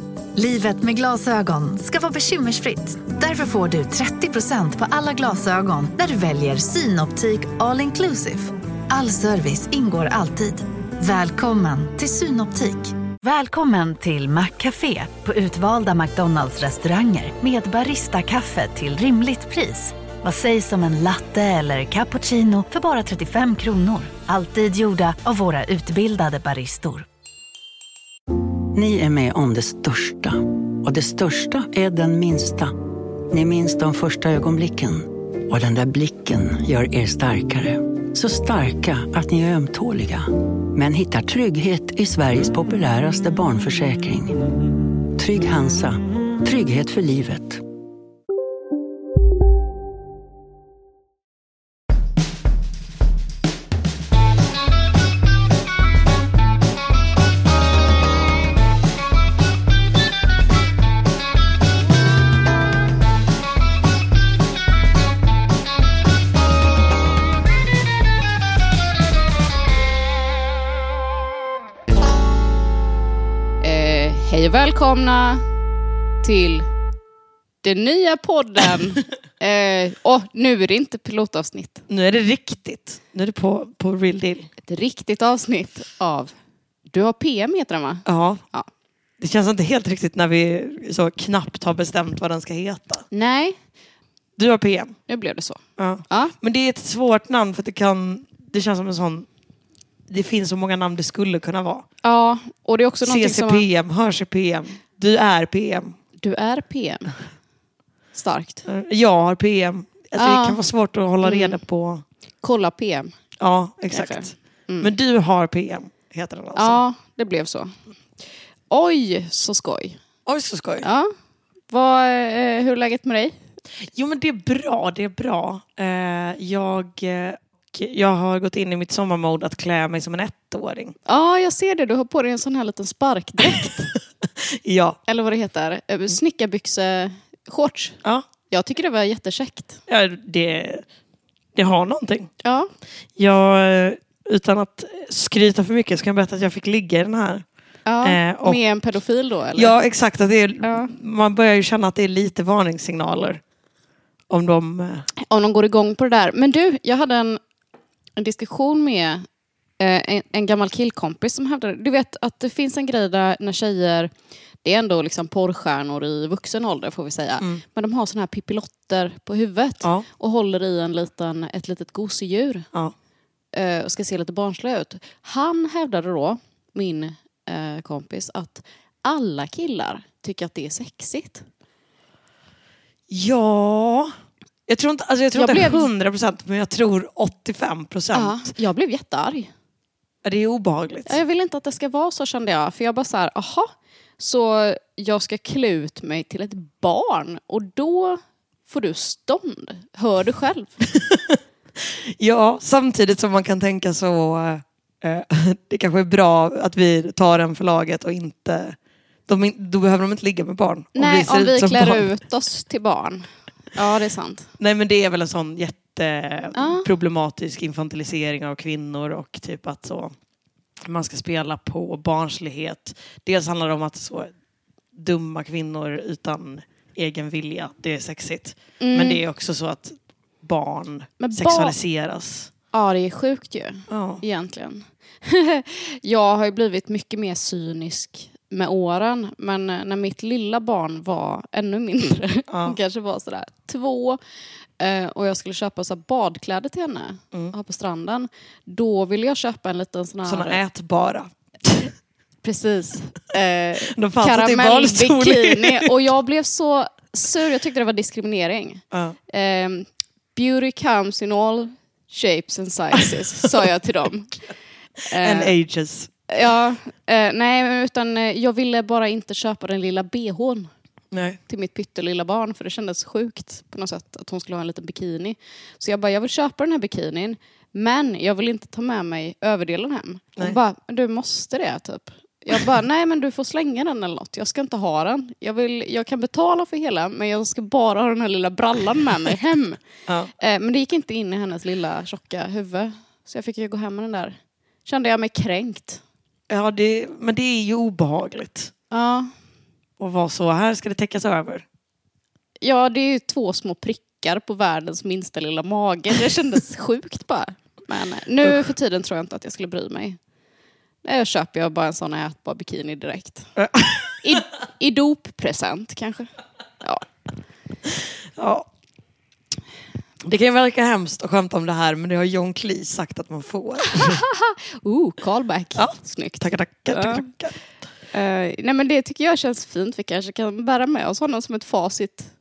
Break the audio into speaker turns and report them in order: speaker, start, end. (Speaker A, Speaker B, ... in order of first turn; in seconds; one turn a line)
Speaker A: 0.4-27.1
Speaker B: 28.7-32.8
Speaker B: 33.3-44.4
Speaker B: 45.1-47.6
Speaker C: 73.6-75.4
Speaker C: 76.2-76.7
Speaker C: 77.6-81.8
Speaker D: 81.9-84.5
Speaker C: 84.7-86.3
Speaker C: 86.9-88.7
Speaker D: 88.1-88.4
Speaker D: 89.2-93.1
Speaker C: 93.1-93.6
Speaker D: 94.4-95.0
Speaker C: 95.1-96.3
Speaker D: 95.8-99.3
Speaker D: 100.1-101.9
Speaker C: 102.0-103.6
Speaker D: 103.0-106.0
Speaker C: 106.2-107.1
Speaker C: 108.1-108.6
Speaker D: 108.7-112.0
Speaker C: 110.2-110.6
Speaker C: 111.2-111.6
Speaker C: 112.4-113.2
Speaker D: 113.4-116.8
Speaker C: 113.9-114.9
Speaker C: 116.5-117.7
Speaker C: 118.7-120.0
Speaker D: 120.3-120.9
Speaker C: 120.8-121.1
Speaker C: 121.7-123.4
Speaker D: 123.8-130.9
Speaker C: 131.1-133.9
Speaker D: 134.6-135.0
Speaker C: 135.1-138.0
Speaker C: 138.5-139.8
Speaker D: 139.9-140.8
Speaker D: 141.6-142.3
Speaker C: 142.4-142.7
Speaker D: 143.2-147.4
Speaker C: 147.9-149.8
Speaker D: 148.0-148.6
Speaker D: 149.6-153.4
Speaker C: 150.6-150.9
Speaker D: 154.3-155.1
Speaker C: 155.2-157.4
Speaker C: 158.2-159.2
Speaker C: 159.8-164.1
Speaker C: 164.6-172.7
Speaker C: 173.5-181.4
Speaker D: 183.1-184.1
Speaker D: 184.7-188.5
Speaker C: 185.3-185.9
Speaker C: 188.1-189.5
Speaker D: 190.2-191.2
Speaker C: 191.1-200.7
Speaker D: 200.9-201.4
Speaker D: 202.2-208.8
Speaker D: 209.3-212.1
Speaker C: 210.9-214.5
Speaker D: 214.6-220.1
Speaker C: 216.6-216.8
Speaker D: 220.8-224.3
Speaker D: 224.9-232.5
Speaker C: 228.8-229.2
Speaker C: 231.2-231.8
Speaker C: 232.7-244.2
Speaker D: 233.9-234.2
Speaker D: 242.5-242.8
Speaker C: 244.8-250.6
Speaker D: 250.3-251.9
Speaker C: 252.4-264.4
Speaker D: 253.9-256.0
Speaker D: 258.9-259.2
Speaker C: 265.1-265.5
Speaker D: 265.1-266.2
Speaker C: 266.3-270.7
Speaker D: 271.1-271.4
Speaker C: 271.5-289.8
Speaker C: 290.4-296.0
Speaker D: 296.5-298.7
Speaker C: 298.9-299.3
Speaker D: 300.0-301.6
Speaker C: 302.6-310.2
Speaker C: 311.0-313.5
Speaker D: 313.6-314.2
Speaker C: 314.2-316.3
Speaker D: 318.4-318.7
Speaker D: 320.2-324.2
Speaker C: 323.9-327.2
Speaker D: 325.8-327.6
Speaker C: 328.1-332.3